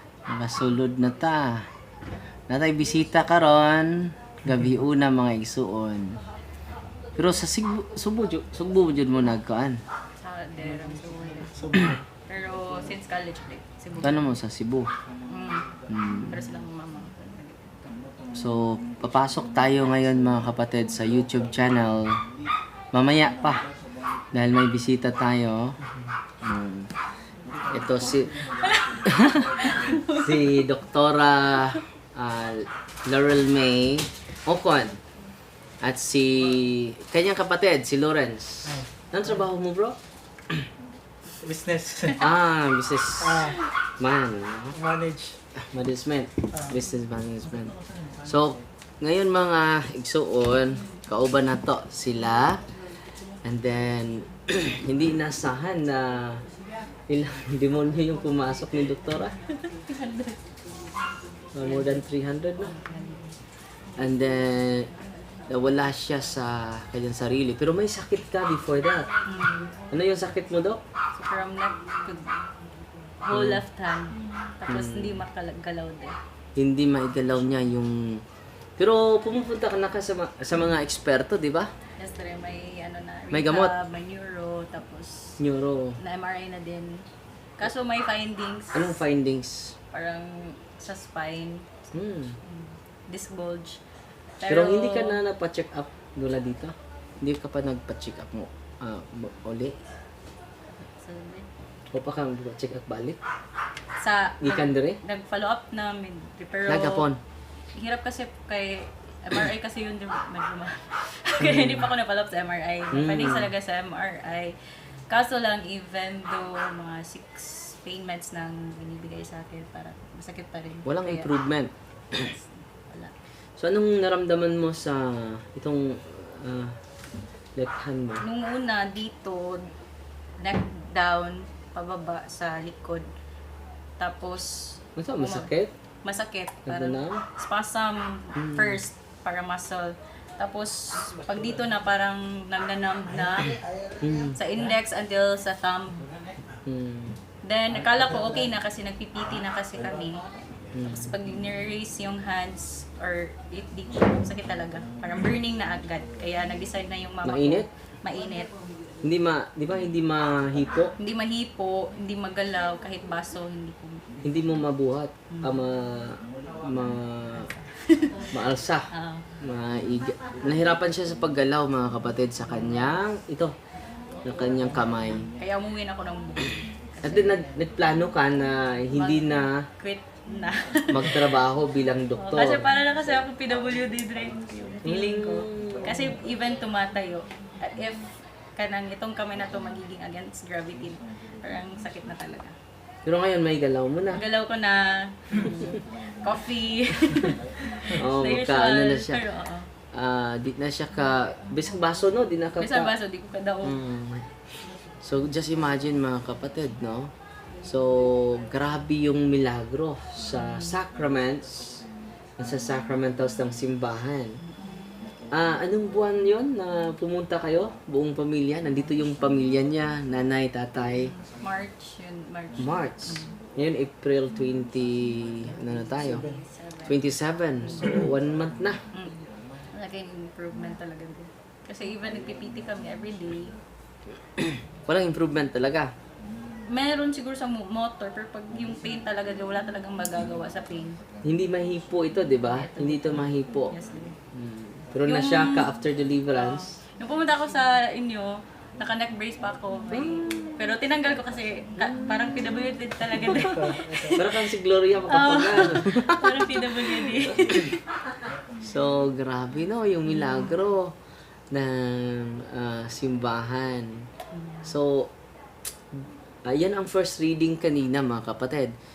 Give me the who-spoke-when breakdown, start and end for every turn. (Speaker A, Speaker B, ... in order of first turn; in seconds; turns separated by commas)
Speaker A: 0.3-1.7, Speaker A: 2.5-6.2, Speaker A: 7.2-9.8, Speaker B: 10.2-11.7, Speaker C: 11.5-12.0, Speaker B: 12.3-14.3, Speaker A: 14.0-14.9, Speaker B: 15.3-15.7, Speaker A: 15.9-16.4, Speaker B: 16.3-17.8, Speaker A: 18.3-22.2, Speaker A: 22.9-23.6, Speaker A: 24.3-25.8, Speaker A: 26.4-26.9, Speaker A: 27.7-28.4, Speaker B: 28.4-30.6, Speaker A: 29.1-35.0, Speaker A: 35.8-40.0, Speaker C: 41.4-42.2, Speaker A: 42.2-44.8, Speaker C: 43.2-43.6, Speaker C: 44.7-45.4, Speaker A: 45.6-52.6, Speaker A: 53.4-56.4, Speaker A: 57.1-59.4, Speaker B: 59.7-60.4, Speaker A: 61.5-62.7, Speaker B: 61.6-62.0, Speaker B: 62.6-63.4, Speaker A: 64.0-64.9, Speaker A: 65.5-69.1, Speaker B: 69.2-69.7, Speaker A: 69.9-70.8, Speaker B: 71.1-72.5, Speaker B: 73.2-76.2, Speaker A: 73.3-73.6, Speaker A: 74.7-75.2, Speaker A: 76.5-78.2, Speaker A: 78.8-81.7, Speaker B: 82.0-85.4, Speaker A: 83.3-83.7, Speaker A: 85.4-86.0, Speaker B: 86.0-87.0, Speaker B: 87.6-89.0, Speaker A: 88.7-89.7, Speaker B: 89.9-91.9, Speaker A: 91.9-92.4, Speaker B: 92.4-93.8, Speaker B: 94.4-95.2, Speaker A: 94.5-99.8, Speaker B: 100.7-101.5, Speaker A: 101.9-103.2, Speaker B: 104.0-107.1, Speaker A: 104.4-105.0, Speaker A: 106.7-107.2, Speaker B: 107.7-114.5, Speaker A: 111.4-111.9, Speaker A: 112.9-113.5, Speaker B: 115.1-121.3, Speaker A: 120.8-122.3, Speaker B: 122.1-123.1, Speaker A: 123.6-126.8, Speaker A: 127.5-128.2, Speaker B: 128.2-129.7, Speaker B: 130.4-133.1, Speaker B: 134.0-135.5, Speaker A: 134.9-135.7, Speaker B: 136.0-143.6, Speaker A: 136.7-137.2, Speaker A: 138.3-138.8, Speaker A: 144.0-144.3, Speaker B: 144.2-146.1, Speaker A: 146.6-147.2, Speaker B: 147.4-150.2, Speaker A: 150.7-151.1, Speaker B: 150.8-158.5, Speaker A: 157.2-157.7, Speaker A: 159.0-160.9, Speaker B: 161.0-164.0, Speaker A: 164.2-167.5, Speaker B: 165.3-165.6, Speaker B: 167.3-168.2, Speaker A: 168.3-168.9, Speaker B: 168.9-169.3, Speaker A: 169.4-173.5, Speaker A: 174.2-175.3, Speaker B: 175.4-177.4, Speaker A: 177.0-179.7, Speaker B: 178.9-181.4, Speaker A: 180.9-182.7, Speaker B: 182.2-192.5, Speaker A: 184.8-186.1, Speaker A: 193.1-194.2, Speaker B: 194.1-199.7, Speaker A: 195.4-195.8, Speaker A: 197.9-199.2, Speaker A: 199.9-202.9, Speaker B: 202.6-203.8, Speaker A: 203.6-207.1, Speaker A: 207.6-211.8, Speaker B: 210.3-210.8, Speaker A: 212.4-214.4, Speaker B: 214.4-214.9, Speaker A: 215.3-221.1, Speaker B: 221.4-223.3, Speaker A: 222.6-226.2, Speaker B: 225.9-227.0, Speaker A: 226.8-228.8, Speaker B: 229.7-233.5, Speaker A: 234.4-235.9, Speaker B: 236.6-241.0, Speaker A: 241.2-243.7, Speaker B: 242.5-244.1, Speaker A: 244.3-246.7, Speaker B: 245.1-245.7, Speaker B: 246.3-254.4, Speaker A: 249.9-250.6, Speaker A: 251.8-252.3, Speaker C: 253.2-254.2, Speaker A: 254.1-257.7, Speaker B: 255.1-257.8, Speaker A: 258.6-260.9, Speaker B: 260.1-260.5, Speaker A: 261.5-264.0, Speaker B: 264.3-264.6, Speaker A: 264.6-265.1, Speaker A: 266.4-268.7